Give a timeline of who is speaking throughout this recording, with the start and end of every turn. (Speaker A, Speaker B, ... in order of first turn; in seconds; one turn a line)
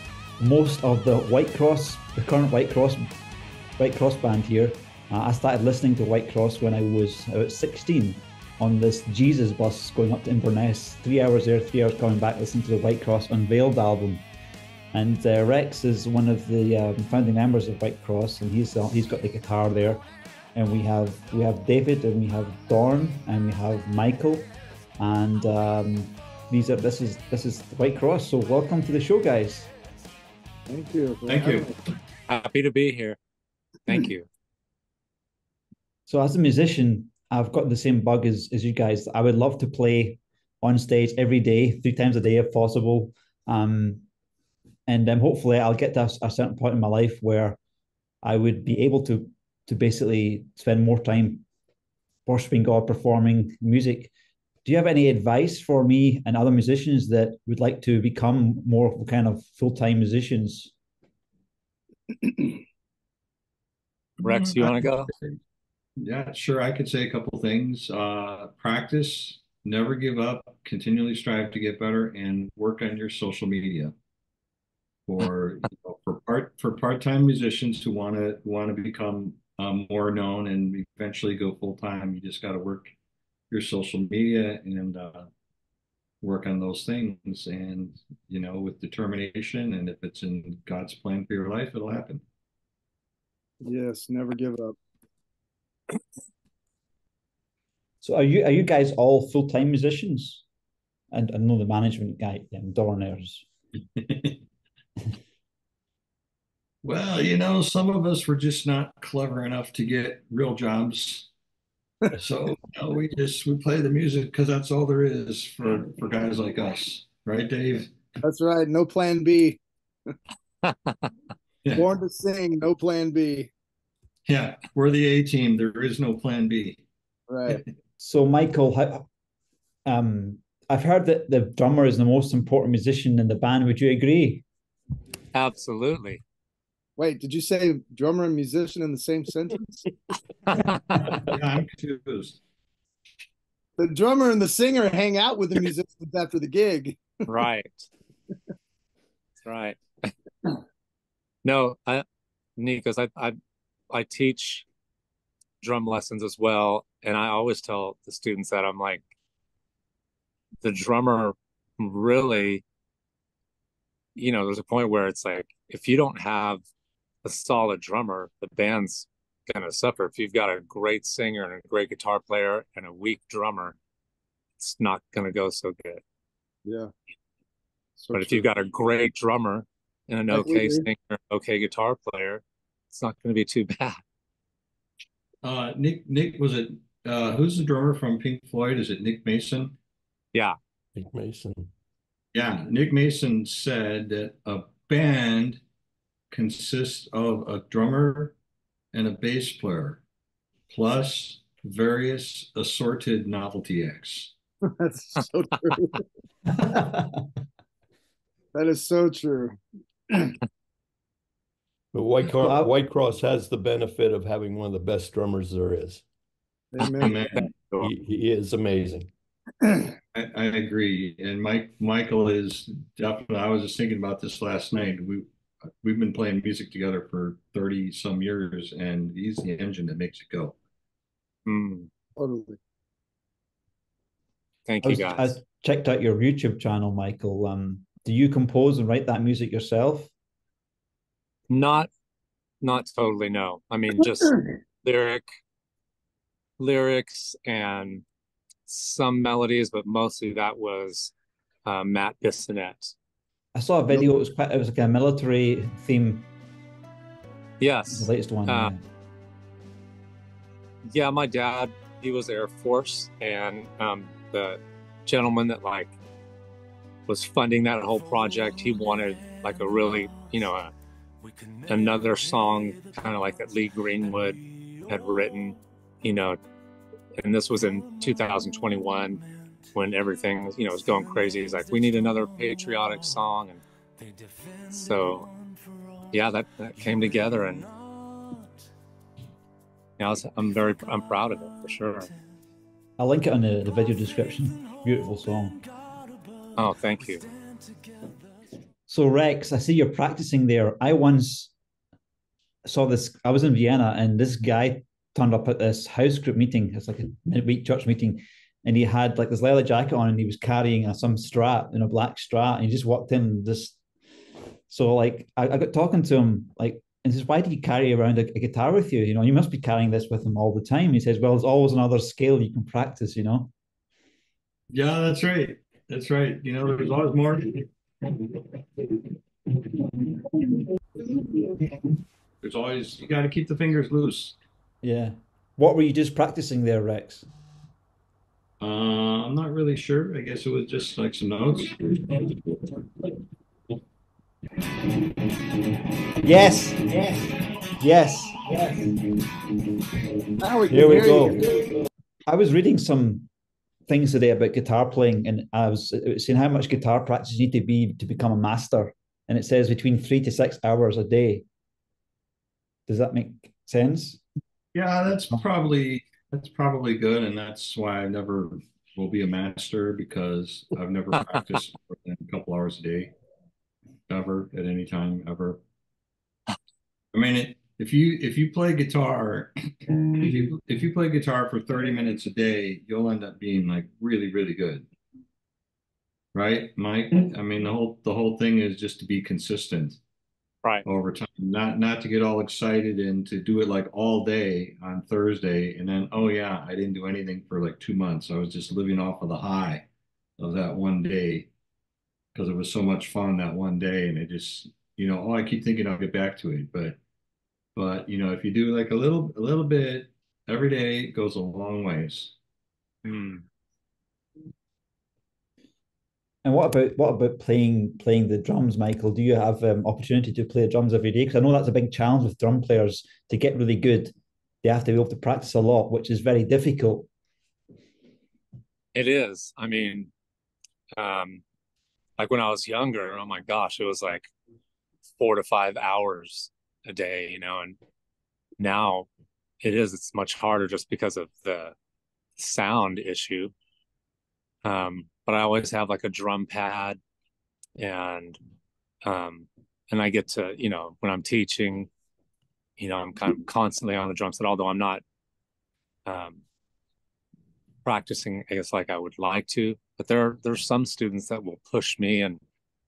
Speaker A: 0.4-3.1
Speaker A: 3.8-14.2
Speaker A: 14.9-20.0
Speaker A: 20.5-29.7
Speaker B: 30.7-31.7
Speaker C: 31.3-31.8
Speaker D: 32.3-33.2
Speaker D: 33.8-34.2
Speaker A: 36.1-44.0
Speaker A: 44.9-47.6
Speaker A: 48.2-51.5
Speaker A: 52.2-54.1
Speaker A: 54.6-60.7
Speaker B: 62.2-62.6
Speaker D: 64.2-65.1
Speaker C: 64.2-65.4
Speaker C: 66.0-73.9
Speaker C: 75.1-82.9
Speaker C: 83.5-85.3
Speaker C: 86.2-92.2
Speaker B: 93.6-94.8
Speaker A: 98.0-100.4
Speaker A: 101.1-103.4
Speaker C: 104.0-104.4
Speaker C: 106.8-111.3
Speaker C: 112.1-117.9
Speaker B: 118.2-119.6
Speaker D: 120.6-121.0
Speaker B: 121.7-123.5
Speaker C: 124.3-126.8
Speaker B: 127.3-127.6
Speaker A: 128.0-129.1
Speaker A: 129.8-134.4
Speaker D: 135.3-136.2
Speaker B: 137.0-139.8
Speaker D: 140.5-141.0
Speaker C: 140.9-142.4
Speaker B: 143.8-147.1
Speaker D: 147.3-147.9
Speaker D: 149.4-150.1
Speaker D: 151.4-152.0
Speaker D: 152.6-153.4
Speaker D: 153.9-154.6
Speaker D: 155.6-159.0
Speaker D: 160.6-162.6
Speaker D: 164.2-166.6
Speaker D: 167.2-173.8
Speaker D: 174.6-176.0
Speaker B: 176.6-176.9
Speaker B: 178.0-178.4
Speaker D: 178.1-184.0
Speaker B: 180.3-180.8
Speaker C: 185.4-189.7
Speaker E: 190.9-191.7
Speaker C: 192.3-195.6
Speaker C: 196.3-198.3
Speaker C: 198.9-200.0
Speaker C: 200.7-204.3
Speaker B: 204.6-206.0
Speaker A: 206.7-207.1
Speaker B: 208.5-210.3
Speaker E: 211.9-216.0
Speaker A: 212.4-212.7
Speaker B: 216.7-217.2
Speaker C: 217.0-217.9
Speaker E: 217.8-219.1
Speaker B: 219.6-219.9
Speaker C: 220.1-225.3
Speaker C: 225.8-230.6
Speaker D: 231.4-231.9
Speaker B: 232.2-232.6
Speaker D: 234.7-235.3
Speaker A: 234.8-240.1
Speaker D: 241.5-241.9
Speaker D: 242.6-245.2
Speaker D: 246.6-248.0
Speaker D: 248.7-251.1
Speaker D: 251.7-252.9
Speaker A: 253.5-256.3
Speaker D: 257.6-258.7
Speaker A: 257.9-258.8
Speaker D: 260.8-265.9
Speaker D: 267.1-270.7
Speaker D: 271.7-276.4
Speaker D: 277.1-283.6
Speaker D: 284.7-285.3
Speaker D: 286.1-287.7
Speaker D: 290.0-292.1
Speaker A: 293.0-295.6
Speaker D: 296.5-297.3
Speaker A: 298.9-301.5
Speaker A: 302.6-313.8
Speaker A: 314.7-323.5
Speaker C: 324.7-327.7
Speaker C: 332.4-334.3
Speaker A: 334.8-337.2
Speaker C: 338.6-342.2
Speaker A: 346.2-347.0
Speaker A: 347.8-348.5
Speaker B: 350.4-351.7
Speaker A: 350.7-351.5
Speaker A: 352.3-353.3
Speaker A: 353.9-361.4
Speaker A: 362.9-364.2
Speaker C: 364.7-373.1
Speaker C: 374.1-375.6
Speaker C: 377.1-384.9
Speaker C: 386.3-390.0
Speaker C: 390.8-399.9
Speaker C: 400.4-401.5
Speaker C: 402.3-407.0
Speaker C: 407.7-412.3
Speaker D: 413.0-413.4
Speaker A: 416.4-427.1
Speaker D: 428.9-430.1
Speaker D: 431.0-431.4
Speaker D: 432.2-434.3
Speaker D: 435.2-437.8
Speaker D: 438.6-439.1
Speaker D: 439.6-441.7
Speaker D: 442.4-443.5
Speaker D: 444.6-447.0
Speaker D: 447.8-448.4
Speaker D: 449.0-451.9
Speaker D: 452.8-455.0
Speaker D: 456.1-456.4
Speaker D: 457.8-462.4